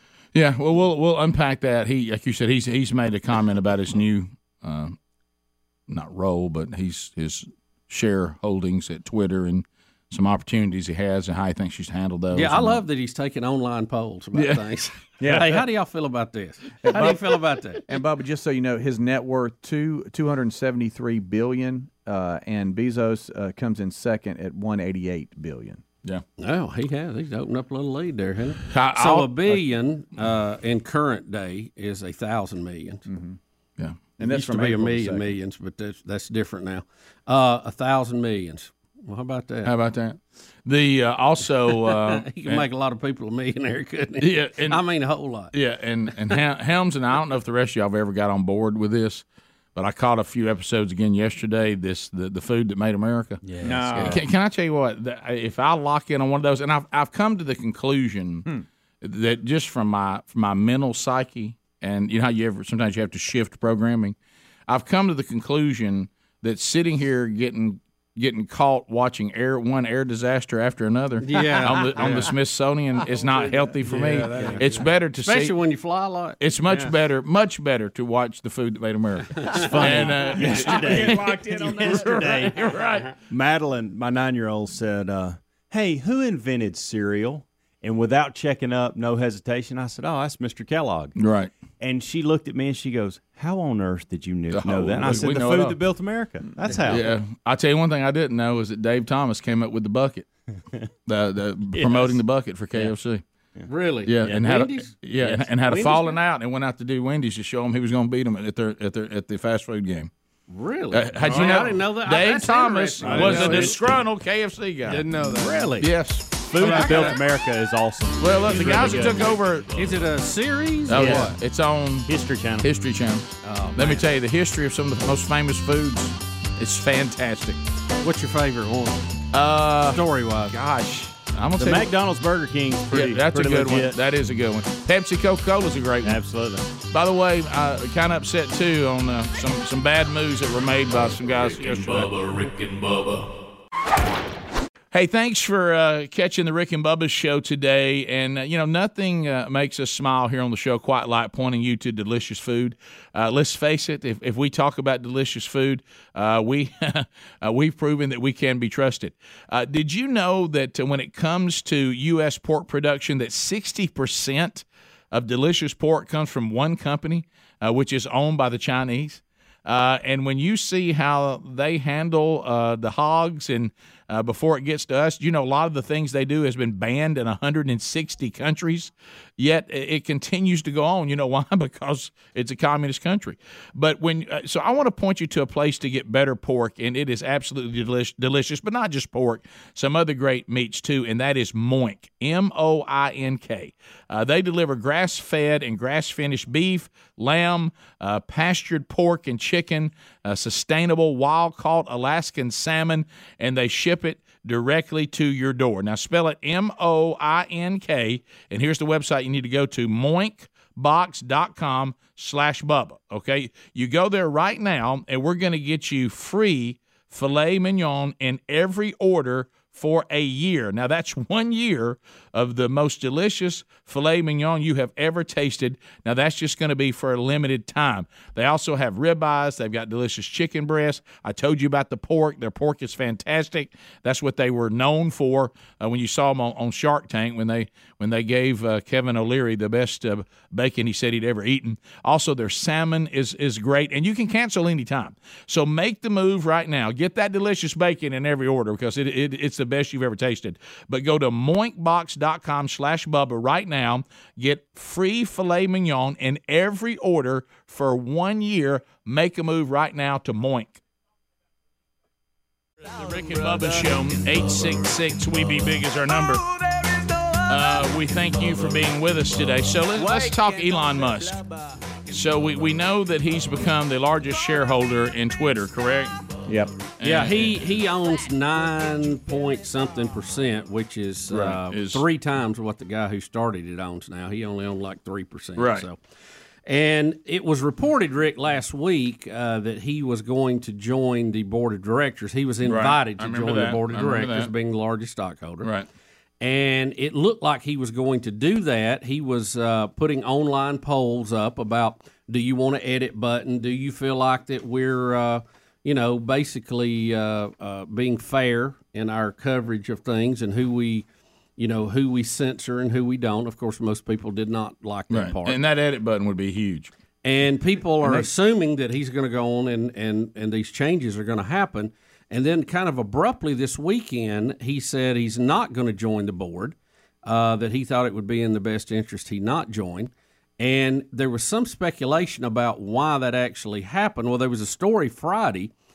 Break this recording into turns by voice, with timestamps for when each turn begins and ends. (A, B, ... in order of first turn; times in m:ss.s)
0:00.3-0:05.0 A
0:05.9-0:12.8 A
0:12.3-0:17.8 B
0:14.3-0:14.6 A
0:15.2-0:15.6 C
0:16.8-0:25.8 C
0:26.4-0:33.0 B
0:28.7-0:29.6 A
0:33.1-0:33.4 C
0:34.2-0:35.4 C
0:34.2-0:39.7 B
0:39.6-0:42.7 A
0:41.7-0:45.5 B
0:44.2-0:44.8 A
0:45.5-0:58.5 A
0:53.6-0:54.2 C
0:59.0-1:04.2 A
1:04.7-1:15.6 A
1:11.2-1:12.4 B
1:13.4-1:13.7 C
1:13.8-1:14.7 D
1:14.4-1:14.7 B
1:15.2-1:16.9 B
1:16.4-1:23.1 A
1:19.3-1:21.1 B
1:19.5-1:22.6 E
1:20.5-1:22.4 C
1:21.8-1:22.2 B
1:23.3-1:31.2 E
1:31.2-1:31.5 A
1:31.8-1:37.1 E
1:34.5-1:35.8 A
1:36.9-1:40.3 A
1:41.1-1:43.2 A
1:41.7-1:42.2 E
1:43.7-1:44.9 B
1:44.0-1:50.1 A
1:45.2-1:45.5 E
1:45.6-1:46.1 B
1:50.5-1:53.9 B
1:50.9-1:55.1 A
1:51.3-1:51.6 D
1:53.0-1:53.9 D
1:54.8-1:55.8 D
1:55.2-1:55.9 B
1:55.8-1:57.1 A
1:56.5-1:59.3 E
1:56.6-1:57.2 D
1:56.6-1:57.1 B
1:58.2-2:00.0 A
1:59.7-2:00.0 F
1:59.7-2:01.4 B
2:00.9-2:07.6 A
2:00.9-2:01.4 E
2:02.1-2:02.7 E
2:03.4-2:04.0 B
2:08.0-2:09.1 B
2:09.3-2:11.9 A
2:09.9-2:10.5 B
2:11.6-2:14.0 E
2:12.9-2:16.2 A
2:16.0-2:16.7 E
2:16.9-2:22.1 A
2:21.6-2:23.3 F
2:24.9-4:20.8 A
4:22.8-4:26.5 A
4:27.5-4:31.4 A
4:32.1-4:36.1 A
4:36.5-4:36.8 C
4:37.0-4:37.8 A
4:37.0-4:46.0 B
4:41.3-4:42.0 A
4:45.6-4:45.9 A
4:46.7-4:55.7 B
4:52.6-4:54.5 A
4:55.6-4:55.9 A
4:56.4-5:11.1 B
5:11.6-5:15.6 B
5:15.1-5:16.9 A
5:17.2-5:35.7 B
5:18.0-5:18.3 C